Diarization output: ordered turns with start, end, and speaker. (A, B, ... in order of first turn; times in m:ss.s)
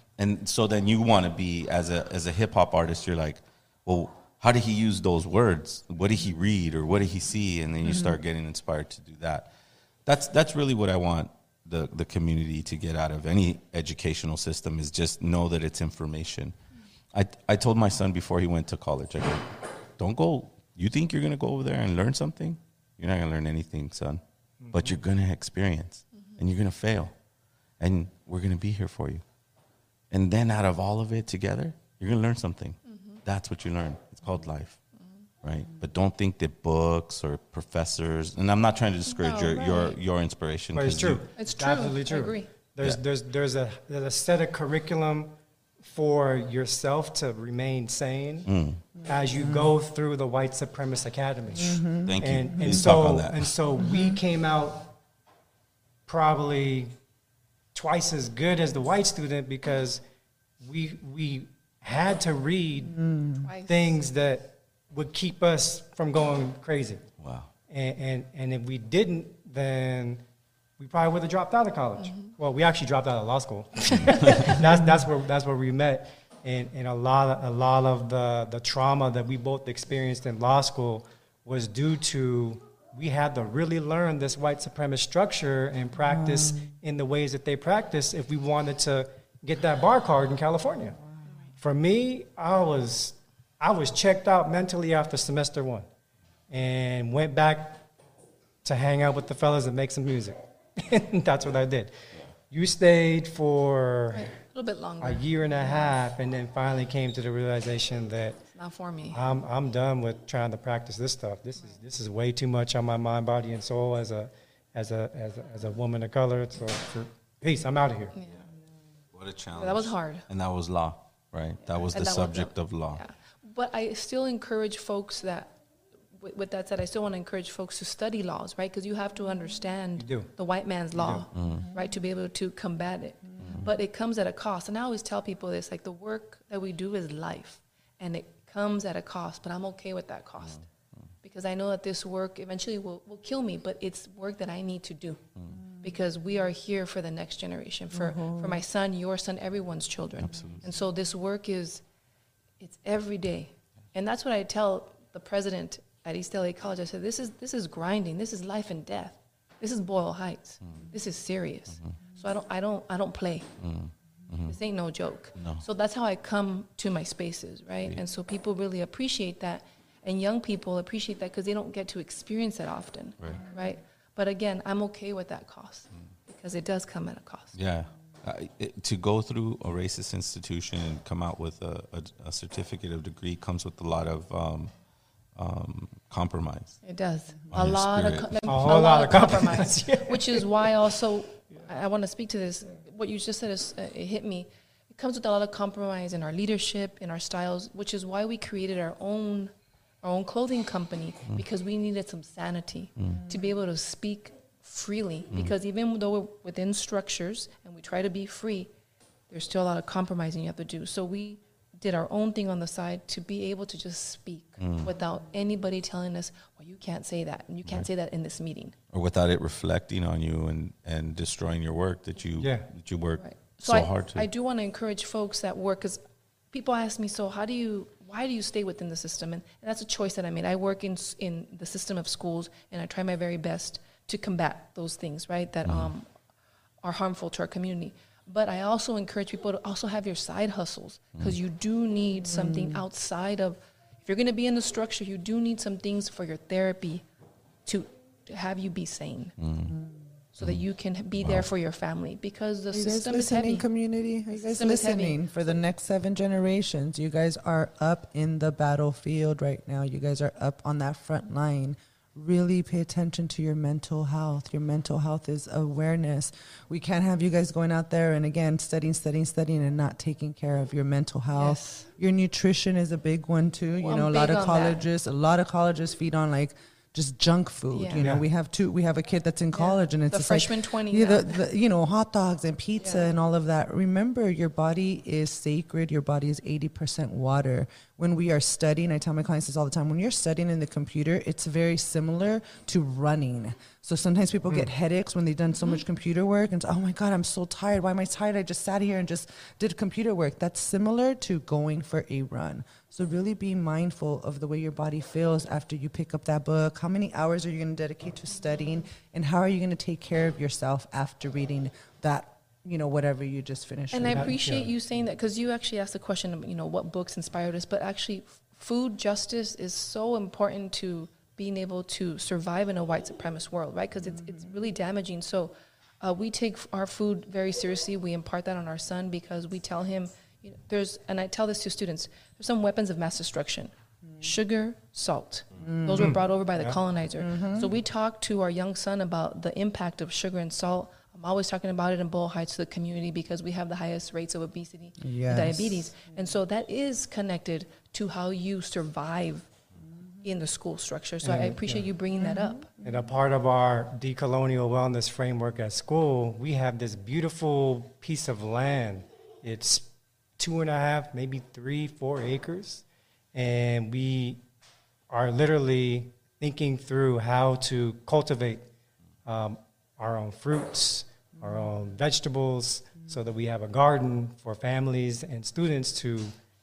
0:00.2-0:09.5 A
0:07.8-0:08.2 B
0:10.1-0:16.6 A
0:17.1-0:24.2 A
0:24.6-0:25.0 C
0:24.7-0:27.1 A
0:27.8-0:29.2 A
0:30.1-0:34.8 A
0:32.9-0:33.2 D
0:35.4-0:41.2 A
0:39.1-0:40.0 D
0:40.7-0:48.5 C
0:41.4-0:42.5 D
0:48.5-0:48.8 A
0:49.0-0:49.7 B
0:49.1-0:54.9 C
0:51.5-0:53.0 B
0:52.0-0:53.5 A
0:53.8-0:54.2 B
0:56.1-0:56.9 C
0:57.7-1:00.0 C
1:00.6-1:02.9 C
1:02.8-1:03.5 B
1:03.5-1:04.0 D
1:03.7-1:07.0 C
1:07.2-1:07.5 A
1:07.7-1:10.2 C
1:10.8-1:31.0 C
1:12.0-1:12.3 D
1:14.0-1:14.5 A
1:14.6-1:15.0 B
1:26.0-1:26.7 B
1:31.6-1:35.9 C
1:36.5-1:37.8 C
1:38.6-1:42.0 C
1:42.5-1:44.3 C
1:44.1-1:45.9 D
1:45.0-1:48.4 C
1:48.6-1:49.2 D
1:49.1-1:58.1 C
1:58.2-1:58.4 D
1:59.1-2:03.0 A
1:59.6-2:00.3 D
2:01.7-2:05.5 D
2:06.2-2:20.6 D
2:10.0-2:10.3 C
2:11.0-2:11.2 C
2:11.3-2:11.7 A
2:11.5-2:11.8 B
2:13.4-2:13.7 A
2:20.4-2:21.0 A
2:21.2-2:25.3 D
2:25.5-2:26.0 B
2:25.8-2:31.8 D
2:27.9-2:28.6 B
2:30.2-2:30.7 A
2:30.2-2:30.6 B
2:32.6-2:43.5 D
2:43.6-2:44.6 A
2:44.5-2:57.5 D
2:45.4-2:45.6 A
2:57.5-3:04.7 A
3:05.4-3:06.8 A
3:06.8-3:28.7 D
3:07.5-3:08.7 A
3:08.5-3:10.5 C
3:23.0-3:23.2 A
3:23.0-3:23.5 B
3:29.3-3:38.8 D
3:34.6-3:34.9 A
3:38.9-3:44.3 A
3:42.4-3:42.7 C
3:43.2-3:46.0 D
3:46.5-3:56.1 D
3:55.6-3:55.9 A
3:56.8-4:07.0 D
4:02.2-4:02.8 B
4:07.7-4:09.3 D
4:09.4-4:09.7 A
4:09.6-4:10.1 B
4:10.3-4:13.6 D
4:11.2-4:11.5 A
4:12.7-5:14.4 B
4:14.4-4:15.3 D
4:31.4-4:31.9 D
4:33.8-4:34.8 D
4:37.7-4:38.1 D
4:39.5-4:41.4 D
4:42.8-4:43.1 D
5:13.9-5:49.5 D
5:14.1-5:14.7 C
5:24.0-5:24.7 B
5:34.1-5:34.4 B
5:35.6-5:36.2 B
5:36.0-5:36.8 C
5:37.2-5:37.7 B
5:45.0-5:46.4 B
5:50.2-5:52.7 D
5:51.2-5:51.9 C
5:52.1-5:53.1 B
5:52.8-6:04.4 C
6:05.1-6:08.7 C
6:09.3-6:16.3 C
6:11.4-6:11.7 B